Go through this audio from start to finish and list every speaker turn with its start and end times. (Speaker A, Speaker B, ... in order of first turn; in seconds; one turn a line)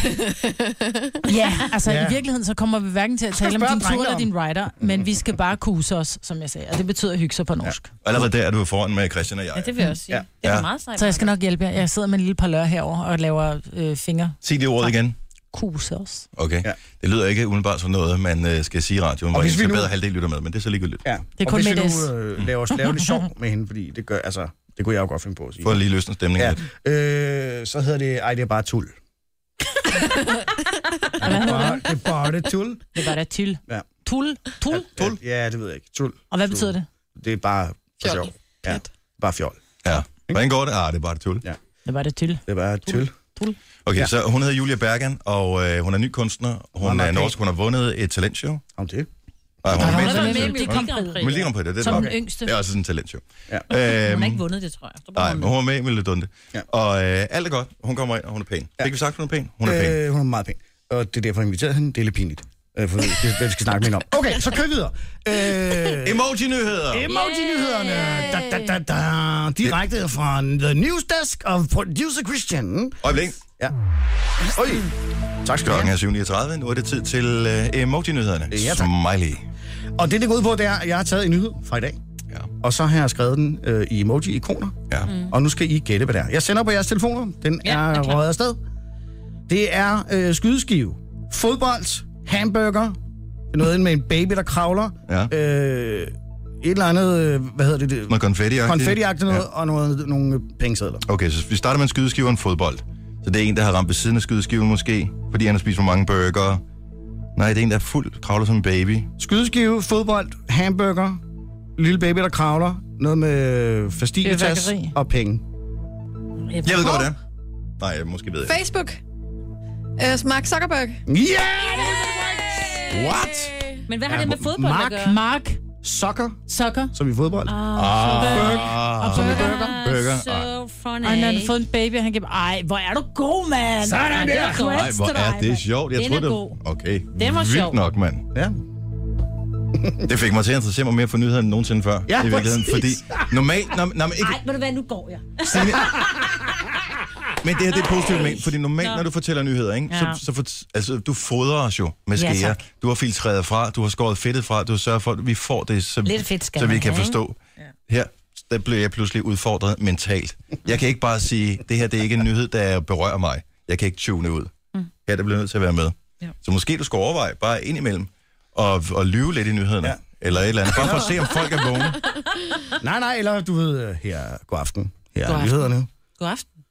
Speaker A: 1.2-7.9
Speaker B: 1.8-2.2
Speaker B: 3.4-4.3
Speaker B: 7.6-8.2
Speaker C: 8.0-9.7
Speaker D: 9.5-11.3
Speaker C: 10.4-10.7
Speaker A: 11.0-14.9
Speaker C: 14.4-15.2
Speaker A: 15.5-16.3
Speaker C: 16.4-21.0
Speaker B: 19.3-19.9
Speaker B: 21.0-25.8
Speaker A: 21.4-22.1
Speaker C: 25.6-26.6
Speaker B: 26.4-28.9
Speaker B: 31.2-33.0
Speaker A: 31.2-31.9
Speaker A: 32.9-34.9
Speaker B: 35.0-39.6
Speaker A: 36.3-36.9
Speaker E: 38.0-38.9
Speaker C: 39.8-41.4
Speaker A: 41.9-43.6
Speaker B: 42.5-43.1
Speaker C: 43.8-48.6
Speaker B: 46.8-47.4
Speaker B: 48.8-49.1
Speaker C: 49.6-54.4
Speaker D: 49.7-51.5
Speaker A: 49.7-51.2
Speaker A: 51.8-52.5
Speaker B: 51.8-52.1
Speaker D: 53.8-55.5
Speaker C: 55.1-60.0
Speaker B: 59.6-66.3
Speaker C: 66.0-67.1
Speaker B: 66.9-73.0
Speaker D: 67.1-68.3
Speaker C: 73.0-73.4
Speaker B: 74.5-74.9
Speaker B: 75.4-75.9
Speaker C: 75.6-79.4
Speaker B: 78.5-78.9
Speaker B: 80.0-82.0
Speaker B: 82.6-88.6
Speaker D: 87.6-88.2
Speaker B: 89.5-93.0
Speaker B: 93.5-101.0
Speaker C: 98.1-99.4
Speaker C: 101.0-106.6
Speaker C: 107.3-109.1
Speaker B: 109.2-111.2
Speaker B: 111.8-115.4
Speaker A: 114.2-114.9
Speaker A: 116.5-117.1
Speaker C: 116.6-117.2
Speaker C: 117.8-118.6
Speaker E: 118.4-119.0
Speaker E: 120.0-121.0
Speaker B: 121.0-122.4
Speaker D: 121.8-122.8
Speaker C: 122.9-123.5
Speaker D: 123.9-125.2
Speaker B: 124.0-125.1
Speaker A: 125.0-125.6
Speaker B: 125.8-126.4
Speaker A: 126.5-126.9
Speaker B: 126.9-129.7
Speaker D: 127.5-131.5
Speaker C: 127.7-130.4
Speaker A: 128.2-129.7
Speaker A: 131.0-135.6
Speaker B: 133.8-134.6
Speaker D: 134.1-134.9
Speaker C: 134.6-138.3
Speaker D: 135.9-136.6
Speaker D: 137.1-137.8
Speaker B: 139.7-140.0
Speaker C: 140.1-144.4
Speaker B: 142.1-143.4
Speaker D: 144.2-146.1
Speaker C: 145.5-146.0
Speaker B: 145.6-146.0
Speaker C: 147.4-157.4
Speaker D: 148.0-149.1
Speaker D: 149.9-150.2
Speaker D: 152.1-152.6
Speaker D: 156.0-157.2
Speaker C: 157.9-164.5
Speaker C: 165.0-172.0
Speaker B: 170.7-171.3
Speaker B: 172.8-175.9
Speaker D: 175.2-176.4